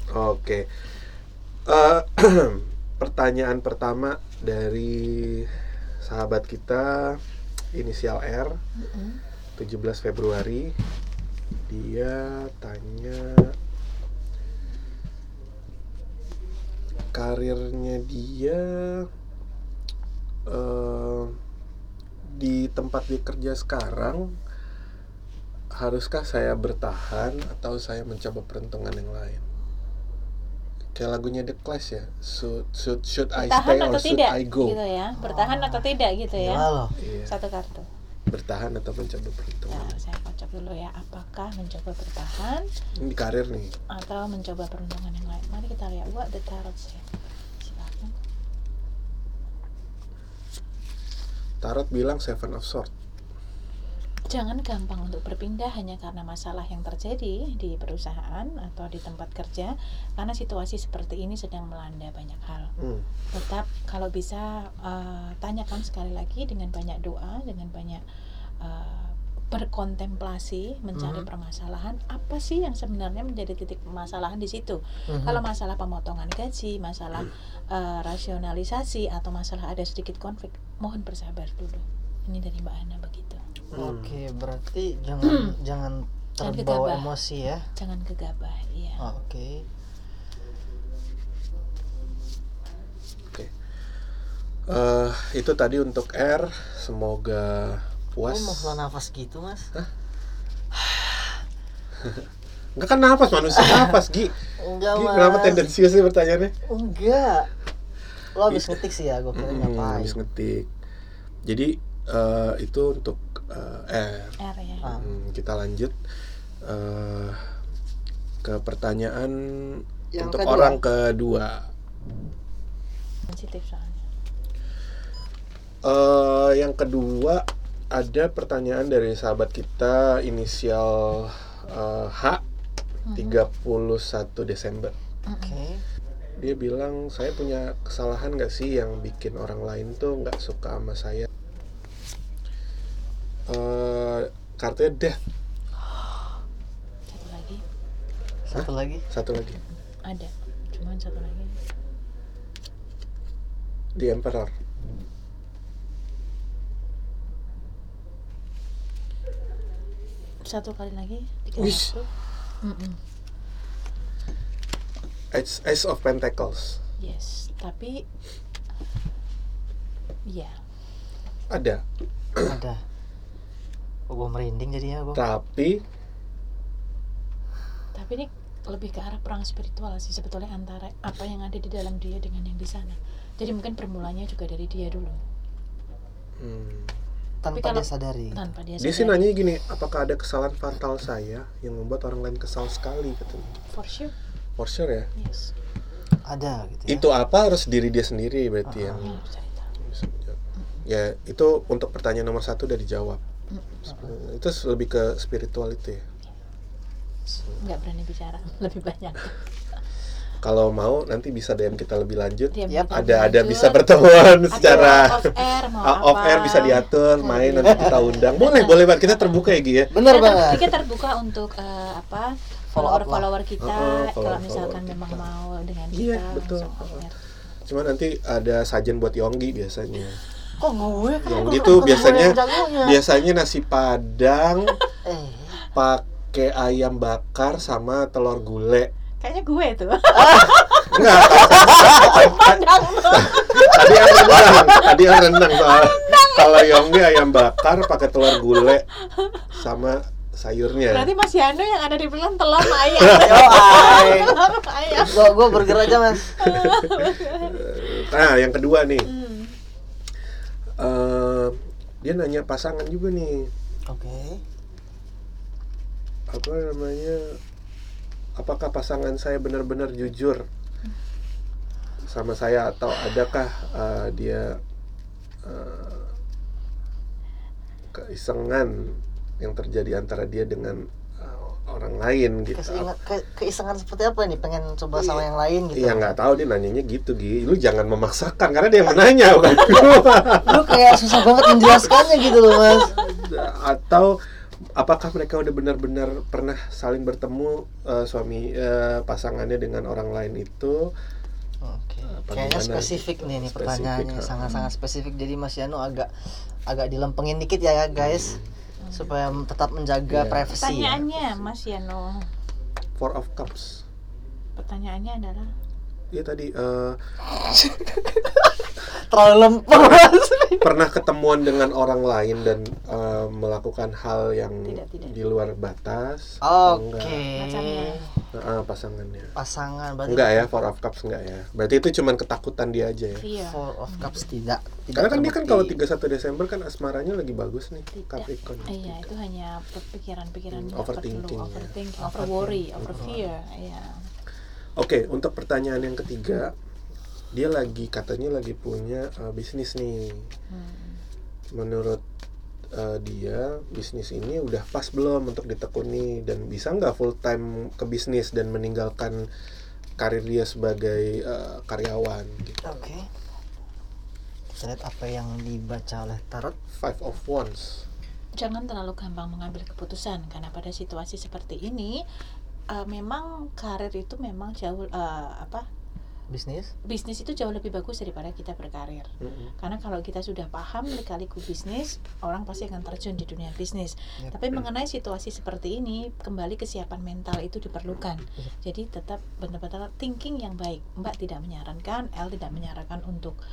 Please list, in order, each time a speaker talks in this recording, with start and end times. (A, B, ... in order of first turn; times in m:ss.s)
0:00.1-0:00.9 A
0:01.7-0:07.2 A
0:07.7-0:08.6 A
0:08.8-0:09.2 B
0:09.6-0:10.7 A
0:11.7-0:13.5 A
0:17.1-0:19.1 A
0:20.5-0:21.4 A
0:22.3-0:24.4 A
0:25.7-0:29.4 A
0:31.0-0:34.8 A
0:33.3-0:36.7 B
0:35.2-0:36.9 C
0:37.0-0:37.4 A
0:37.2-0:37.9 B
0:38.3-0:40.0 A
0:39.7-0:42.7 B
0:43.0-0:43.7 A
0:43.9-0:47.0 B
0:47.6-0:48.1 B
0:51.6-0:52.9 A
0:54.3-1:02.7 B
1:02.8-1:03.1 A
1:03.3-1:08.0 B
1:08.6-1:23.4 B
1:11.0-1:11.3 C
1:15.1-1:15.4 C
1:23.7-1:27.6 C
1:23.7-1:24.2 A
1:25.2-1:25.5 B
1:26.4-1:27.1 B
1:27.8-1:29.0 B
1:29.0-1:29.6 C
1:34.7-1:38.8 A
1:38.3-1:39.7 C
1:40.7-1:41.4 C
1:42.8-1:44.4 A
1:43.6-1:43.8 C
1:44.6-1:45.7 C
1:44.9-1:46.5 A
1:46.7-1:47.5 C
1:48.4-1:50.2 C
1:48.5-1:48.8 A
1:49.3-1:50.7 A
1:51.5-1:54.4 A
1:54.4-1:54.9 B
1:54.8-1:55.1 C
1:54.9-1:56.0 A
1:56.6-1:57.4 A
1:58.4-2:01.7 A
2:00.1-2:00.8 C
2:03.3-2:04.0 B
2:05.8-2:12.4 A
2:13.1-2:13.4 B
2:13.1-2:14.9 A
2:15.3-2:15.6 B
2:15.4-2:15.8 C
2:16.4-2:21.3 A
2:23.5-2:25.2 A
2:27.1-2:27.6 B
2:28.5-2:29.0 C
2:28.5-2:29.6 A
2:30.0-2:31.6 B
2:34.0-2:34.5 A
2:40.4-2:42.1 B
2:41.6-2:42.0 A
2:42.6-2:43.0 B
2:45.3-2:46.8 A
2:47.0-2:48.0 B
2:50.3-2:50.6 B
2:51.5-2:51.8 A
2:52.5-2:52.8 C
2:54.1-2:55.2 C
2:55.1-2:55.8 A
2:58.0-3:05.2 B
3:06.4-3:07.0 A
3:07.4-3:08.4 C
3:07.5-3:09.3 B
3:08.8-3:13.7 A
3:13.7-3:14.1 B
3:14.6-3:15.1 A
3:15.2-3:15.5 B
3:16.3-3:17.0 C
3:16.9-3:19.2 A
3:18.7-3:19.0 C
3:19.0-3:19.7 B
3:19.8-3:23.2 A
3:23.8-3:26.0 A
3:27.6-3:29.4 B
3:30.4-3:40.8 A
3:32.5-3:39.2 B
3:32.7-3:33.0 C
3:34.6-3:35.1 C
3:37.7-3:38.0 C
3:39.9-3:40.7 C
3:40.0-3:47.2 B
3:42.7-3:43.3 C
3:43.6-3:45.3 A
3:45.9-3:47.0 A
3:47.7-3:50.2 A
3:50.6-3:53.0 C
3:51.2-3:54.8 A
3:55.0-3:55.6 C
3:55.7-3:58.9 A
3:59.2-4:04.9 B
4:00.9-4:08.8 A
4:04.2-4:04.5 C
4:05.5-4:07.1 B
4:08.2-4:09.5 B
4:09.5-4:11.1 A
4:10.9-4:17.6 B
4:13.1-4:14.4 C
4:15.1-4:16.3 C
4:16.4-4:19.1 A
4:19.0-4:19.6 B
4:20.8-4:23.5 A
4:23.9-4:24.4 C
4:26.3-4:27.2 A
4:28.4-4:30.4 A
4:32.1-4:34.6 A
4:35.5-4:36.1 A
4:37.9-4:42.9 A
4:42.6-4:46.2 C
4:45.0-4:54.2 A
4:50.4-4:53.0 C
4:54.8-5:00.9 A
5:01.6-5:08.4 C
5:02.0-5:04.6 A
5:08.0-5:08.5 A
5:08.8-5:09.2 B
5:08.9-5:11.0 C
5:10.1-5:11.4 A
5:10.6-5:12.3 B
5:13.0-5:13.8 A
5:14.6-5:15.5 B
5:16.1-5:17.0 A
5:17.3-5:20.7 C
5:20.6-5:27.3 A
5:24.7-5:25.2 B
5:26.4-5:28.2 C
5:27.4-5:28.0 B
5:28.3-5:29.3 A
5:29.4-5:30.5 C
5:30.0-5:33.3 A
5:33.2-5:34.2 B
5:33.4-5:35.8 C
5:34.9-5:39.1 A
5:37.9-5:43.9 B
5:40.5-5:41.8 A
5:42.0-5:43.2 C
5:42.8-5:43.1 A
5:44.8-5:46.5 A
5:47.3-5:50.3 A
5:50.5-5:51.0 B
5:51.5-5:52.0 A
5:52.7-5:59.2 A
6:00.0-6:02.7 A
6:02.6-6:03.1 C
6:04.6-6:06.6 C
6:06.7-6:07.9 A
6:08.4-6:11.9 B
6:12.7-6:15.6 B
6:16.3-6:16.7 C
6:16.9-6:19.1 B
6:19.2-6:19.5 A
6:19.6-6:33.4 B